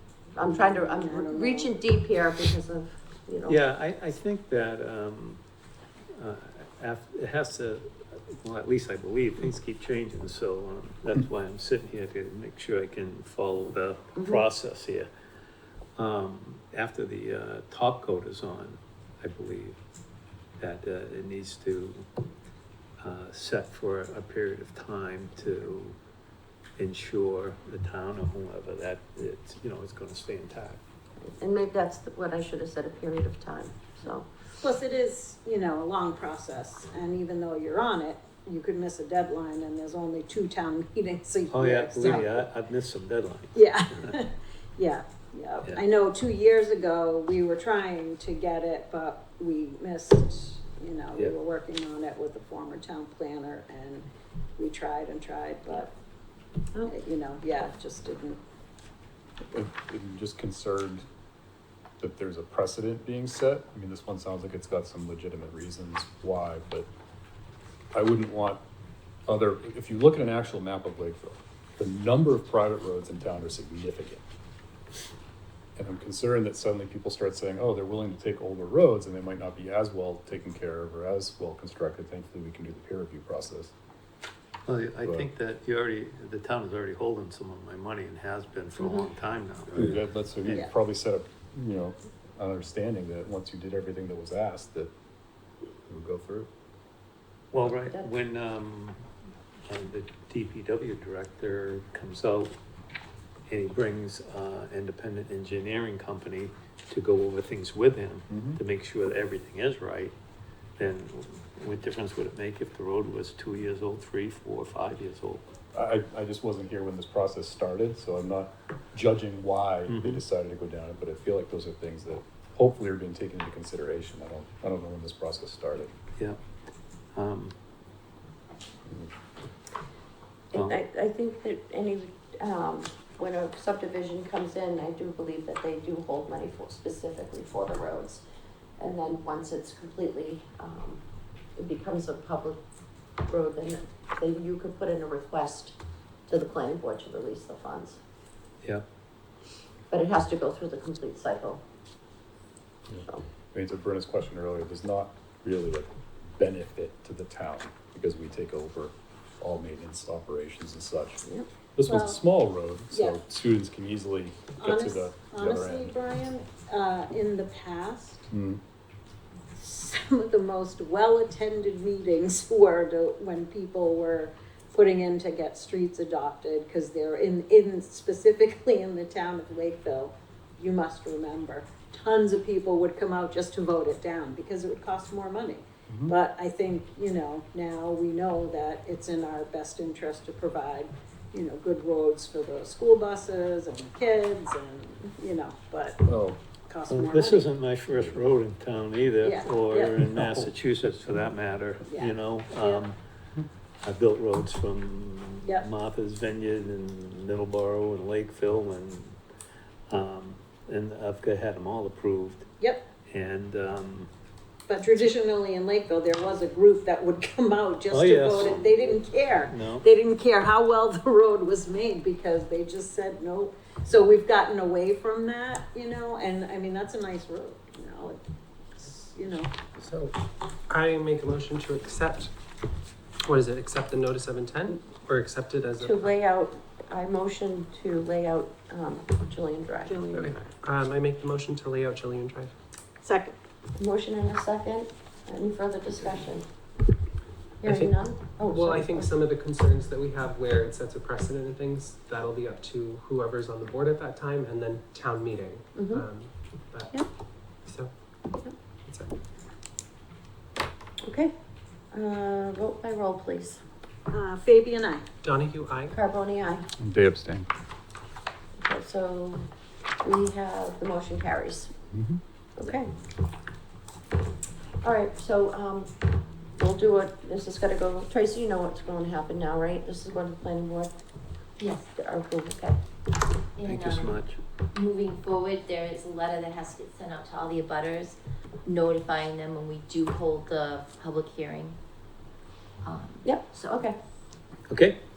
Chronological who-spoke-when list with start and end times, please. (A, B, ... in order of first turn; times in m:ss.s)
0:00.4-0:03.6 A
0:00.5-0:01.7 B
0:03.5-0:05.4 C
0:06.2-0:15.1 C
0:14.2-0:14.4 A
0:16.0-0:19.8 C
0:20.6-0:22.1 C
0:23.0-0:26.0 C
0:26.8-0:30.8 C
0:31.2-0:34.3 A
0:34.6-0:42.4 B
0:41.5-0:44.1 C
0:43.6-0:55.9 B
0:56.9-0:58.4 B
0:59.5-1:01.1 D
1:02.0-1:06.9 D
1:07.9-1:08.6 D
1:09.3-1:14.2 D
1:15.8-1:23.7 D
1:24.7-1:29.8 C
1:28.8-1:29.1 A
1:29.8-1:34.9 D
1:35.9-1:36.5 D
1:37.5-1:39.0 C
1:39.7-1:42.6 C
1:43.5-1:50.1 C
1:48.3-1:48.6 D
1:50.8-1:55.4 C
1:55.7-2:05.9 D
1:59.9-2:00.2 C
2:07.2-2:07.5 C
2:10.5-2:18.2 A
2:18.8-2:21.0 A
2:21.6-2:22.6 A
2:23.3-2:25.8 A
2:26.3-2:28.0 A
2:29.9-2:31.6 A
2:32.9-2:41.2 D
2:41.8-2:45.9 D
2:41.9-2:42.2 B
2:42.9-2:43.2 B
2:44.6-2:48.3 B
2:48.3-2:48.6 D
2:49.6-3:17.5 B
3:05.9-3:06.2 D
3:16.1-3:16.4 D
3:16.9-3:23.0 C
3:19.2-3:20.5 B
3:21.9-3:22.8 B
3:23.8-3:29.2 C
3:29.9-3:32.5 C
3:33.1-3:34.1 C
3:34.7-3:48.2 B
3:37.9-3:38.7 C
3:39.4-3:39.8 C
3:48.8-3:49.6 B
3:49.8-3:50.1 E
3:50.7-3:52.3 E
3:53.2-3:56.2 E
3:55.8-4:00.1 A
3:59.9-4:00.3 B
4:00.1-4:02.5 E
4:03.0-4:03.4 B
4:03.8-4:06.5 A
4:07.6-4:09.1 A
4:07.6-4:17.1 E
4:15.8-4:16.1 A
4:17.6-4:17.9 E
4:21.0-4:21.3 A
4:21.9-4:23.6 A
4:24.1-4:25.0 B
4:25.2-4:26.0 E
4:25.9-4:26.7 A
4:26.8-4:27.5 D
4:28.6-4:29.4 A
4:30.0-4:31.7 A
4:31.9-4:32.2 D
4:32.6-4:32.9 A
4:34.8-4:40.9 A
4:41.6-4:41.9 F
4:42.0-4:42.8 A
4:43.6-4:44.2 F
4:43.6-4:44.4 C
4:44.7-4:51.8 F
4:52.8-4:53.8 F
4:53.2-4:54.0 A
4:54.7-4:55.0 C